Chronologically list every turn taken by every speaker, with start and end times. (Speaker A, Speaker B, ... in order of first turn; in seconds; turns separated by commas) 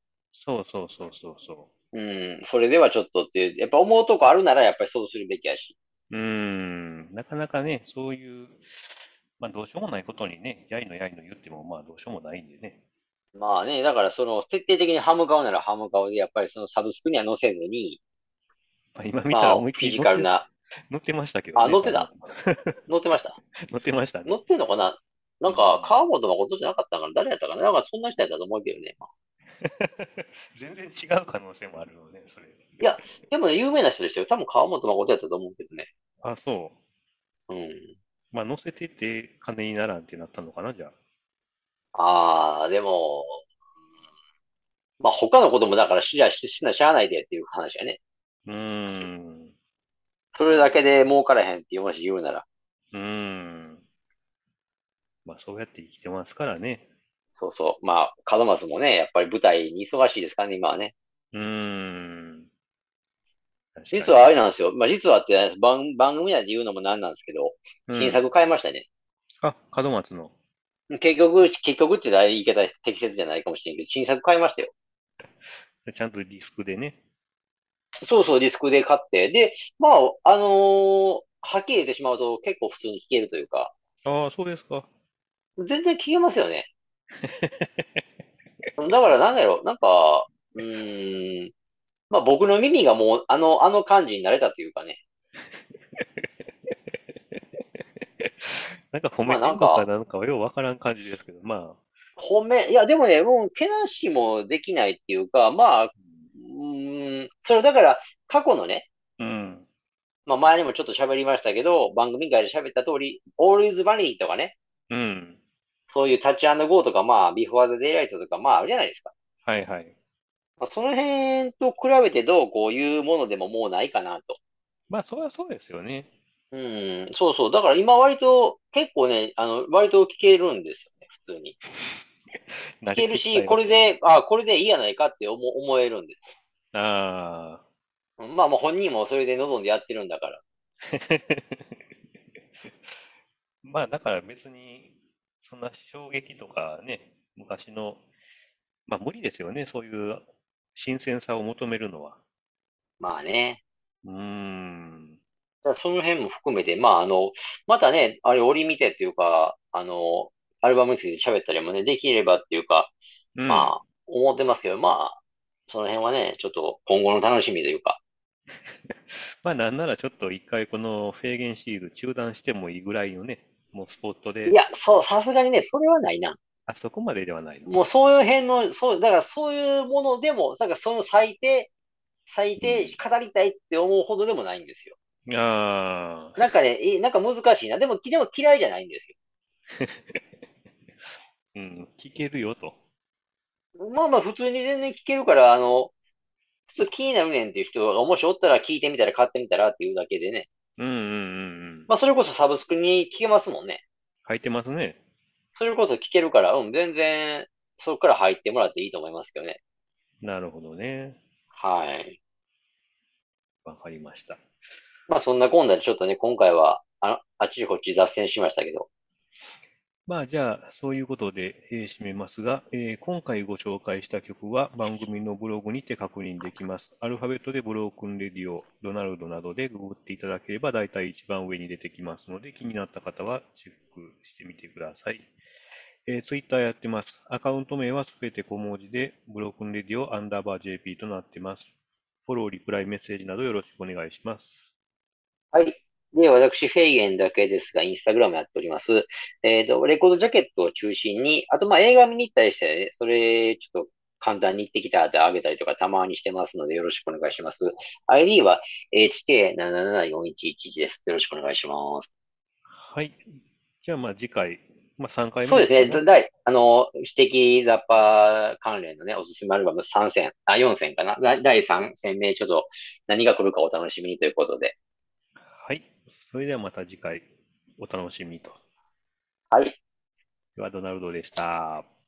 Speaker A: 0.3-1.7, Speaker B: 1.9-5.8, Speaker A: 6.1-12.8, Speaker B: 13.3-18.0, Speaker A: 18.9-20.3, Speaker B: 19.3-20.5, Speaker A: 20.9-22.8, Speaker B: 21.6-22.1, Speaker B: 22.9-23.4, Speaker A: 23.6-24.4, Speaker B: 24.3-29.1, Speaker A: 25.5-26.0, Speaker A: 29.6-33.1, Speaker B: 32.8-35.9, Speaker A: 36.2-36.8, Speaker B: 37.5-37.9, Speaker A: 38.3-40.9, Speaker B: 42.0-43.4, Speaker B: 45.0-48.0, Speaker A: 48.5-49.5, Speaker B: 50.4-52.4, Speaker A: 50.5-50.8, Speaker A: 52.9-53.8, Speaker A: 55.2-56.9, Speaker B: 57.4-60.9, Speaker A: 61.3-62.5, Speaker A: 63.8-64.3, Speaker B: 63.9-68.9, Speaker A: 67.9-68.2, Speaker A: 69.4-70.3, Speaker B: 70.9-74.7, Speaker A: 75.4-77.0, Speaker B: 78.0-83.7, Speaker A: 84.0-84.9, Speaker B: 85.6-86.7, Speaker A: 87.2-88.0, Speaker B: 88.8-91.5, Speaker B: 92.1-95.0, Speaker A: 95.5-101.8, Speaker B: 99.3-99.9, Speaker B: 102.2-108.9, Speaker A: 109.2-109.7, Speaker B: 110.3-114.5, Speaker A: 114.9-115.4, Speaker B: 115.9-119.1, Speaker A: 119.5-120.0, Speaker B: 120.6-124.4, Speaker A: 124.9-126.1, Speaker B: 126.5-131.6, Speaker A: 132.5-133.8, Speaker B: 132.9-136.3, Speaker A: 136.7-137.6, Speaker B: 138.2-140.4, Speaker A: 140.9-141.8, Speaker A: 142.6-143.1, Speaker A: 143.6-148.0, Speaker A: 148.9-152.2, Speaker B: 153.0-153.6, Speaker A: 154.0-155.2, Speaker B: 155.6-162.9, Speaker A: 163.4-163.8, Speaker B: 163.5-168.0, Speaker A: 168.6-174.6, Speaker B: 174.5-176.4, Speaker A: 176.7-177.7, Speaker B: 177.7-181.7, Speaker B: 182.3-184.9, Speaker A: 182.6-183.0, Speaker A: 185.3-186.4, Speaker B: 186.4-189.1, Speaker A: 189.7-190.2, Speaker A: 191.5-192.8, Speaker B: 193.8-195.9, Speaker B: 196.7-200.5, Speaker A: 200.8-201.9, Speaker B: 201.9-203.8, Speaker A: 204.3-205.0, Speaker B: 205.6-209.6, Speaker A: 210.2-211.2, Speaker B: 211.5-212.2, Speaker A: 213.7-214.4, Speaker B: 215.1-218.9, Speaker A: 220.1-235.3, Speaker A: 236.0-241.7, Speaker A: 242.3-244.6, Speaker B: 245.5-262.1, Speaker A: 262.7-266.0, Speaker B: 265.4-274.7, Speaker A: 275.4-277.3, Speaker A: 277.8-278.6, Speaker B: 279.5-279.8, Speaker A: 280.6-281.9